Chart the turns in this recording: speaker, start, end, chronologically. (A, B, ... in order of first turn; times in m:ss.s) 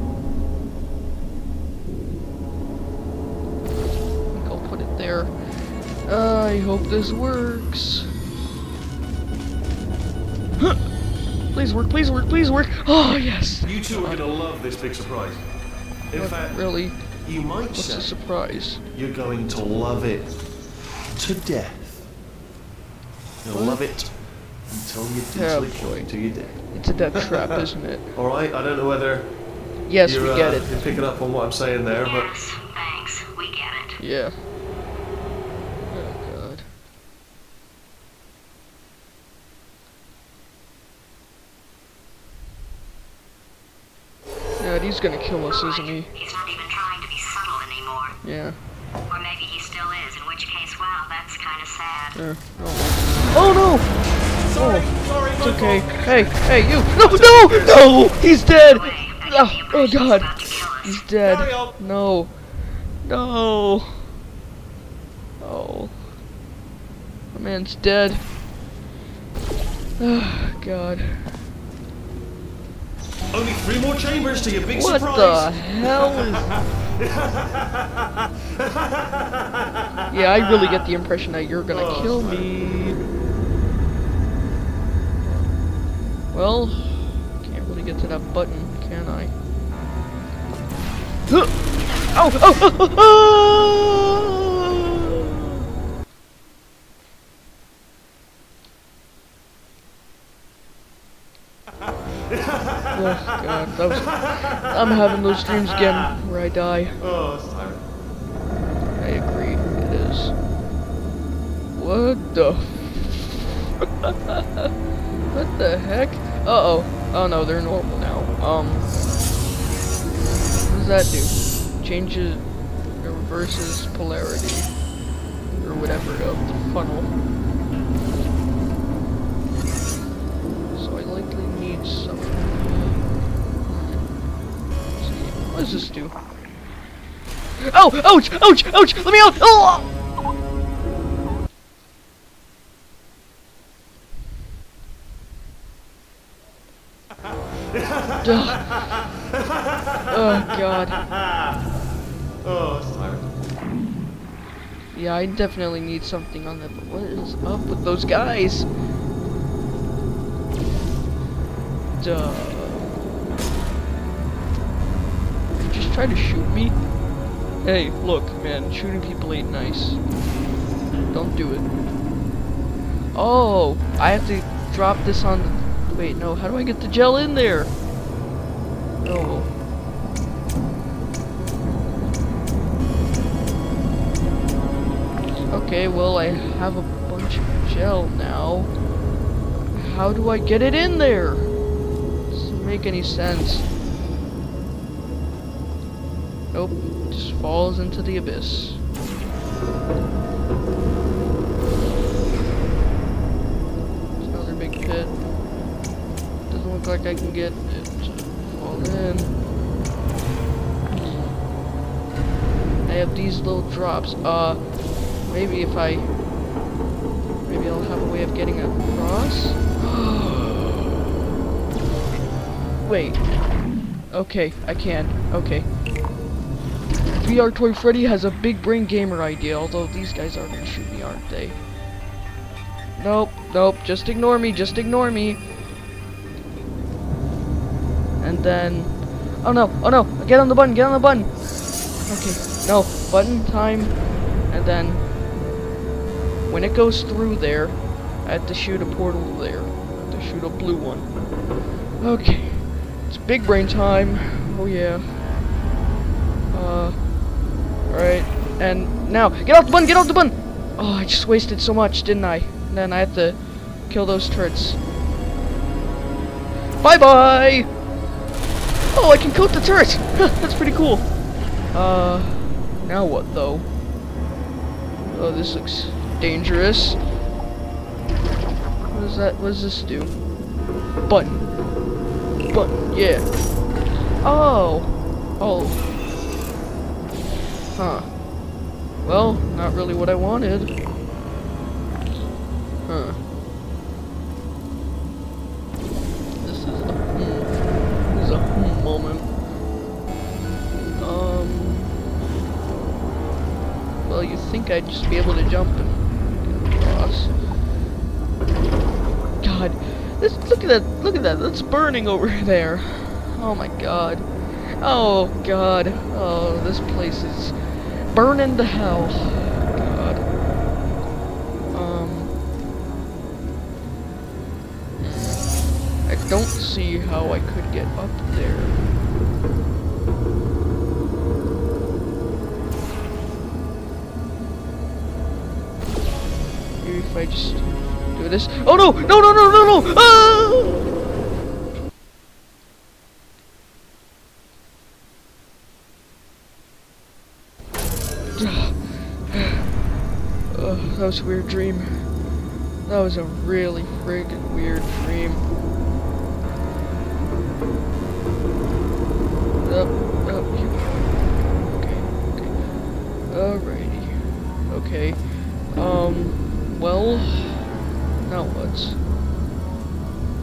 0:04.2-0:08.1 A
0:10.6-0:10.9 A
0:11.5-0:14.3 A
0:13.6-0:18.3 B
0:16.1-0:18.8 A
0:18.8-0:20.4 B
0:21.1-0:22.1 B
0:23.4-0:27.4 B
0:23.5-0:23.8 A
0:25.3-0:28.1 A
0:28.1-0:32.3 B
0:29.9-0:30.8 A
0:32.0-0:34.0 C
0:34.0-0:34.4 A
0:35.9-0:36.7 A
0:44.6-0:46.1 A
0:45.4-0:48.4 C
0:48.2-0:48.6 A
0:49.1-0:52.4 C
0:52.1-1:04.1 A
0:54.4-0:58.2 B
0:58.5-1:01.0 C
1:01.2-1:01.8 B
1:05.4-1:06.0 A
1:07.3-1:08.3 A
1:10.0-1:11.4 A
1:13.3-1:20.8 B
1:14.7-1:16.5 A
1:20.1-1:23.0 A
1:21.7-1:22.6 B
1:25.2-1:29.4 A
1:31.3-1:35.3 A
1:42.3-1:43.6 B
1:42.9-1:47.0 A
1:44.1-1:46.0 B
1:47.0-1:47.8 B
1:49.0-1:50.4 A
1:51.8-1:54.7 A
1:55.3-1:58.9 A
2:00.7-2:04.8 A
2:05.5-2:07.1 A
2:10.7-2:13.0 A
2:13.6-2:14.1 A
2:15.0-2:16.2 A
2:17.6-2:19.9 A
2:27.7-2:31.7 B
2:28.2-2:28.7 A
2:30.1-2:31.1 A
2:32.4-2:33.3 B
2:34.9-2:38.7 A
2:42.0-2:43.0 A
2:45.6-2:46.8 A
2:47.6-2:50.0 A
2:51.1-2:51.7 A
2:53.1-2:57.7 A
2:59.0-2:59.5 A
3:05.5-3:08.8 A
3:09.7-3:11.5 A
3:12.3-3:13.7 A
3:16.5-3:18.8 A
3:24.2-3:25.2 A
3:26.5-3:29.4 A
3:30.9-3:31.4 A
3:32.9-3:36.1 A
3:37.4-3:41.0 A
3:42.8-3:43.4 A
3:44.1-3:45.7 A
3:47.2-3:51.6 A
3:53.0-3:55.4 A
3:58.2-4:01.5 A
4:02.0-4:05.1 A
4:06.5-4:11.4 A
4:12.0-4:15.4 A
4:16.5-4:24.8 A
4:26.8-4:27.7 A
4:28.9-4:33.7 A
4:35.1-4:37.1 A
4:38.9-4:40.3 A
4:41.0-4:41.6 A
4:42.5-4:43.7 A
4:44.2-4:45.8 A
4:47.8-4:48.3 A
4:49.0-4:50.8 A
4:52.9-4:53.2 A
4:56.4-4:59.4 A
5:00.9-5:02.0 A
5:04.0-5:07.4 A
5:09.4-5:20.3 A
5:21.7-5:22.3 A
5:25.0-5:28.8 A
5:36.8-5:40.9 A
5:48.4-5:49.8 A
5:50.5-5:52.3 A
5:52.8-5:55.5 A
5:59.6-6:09.0 A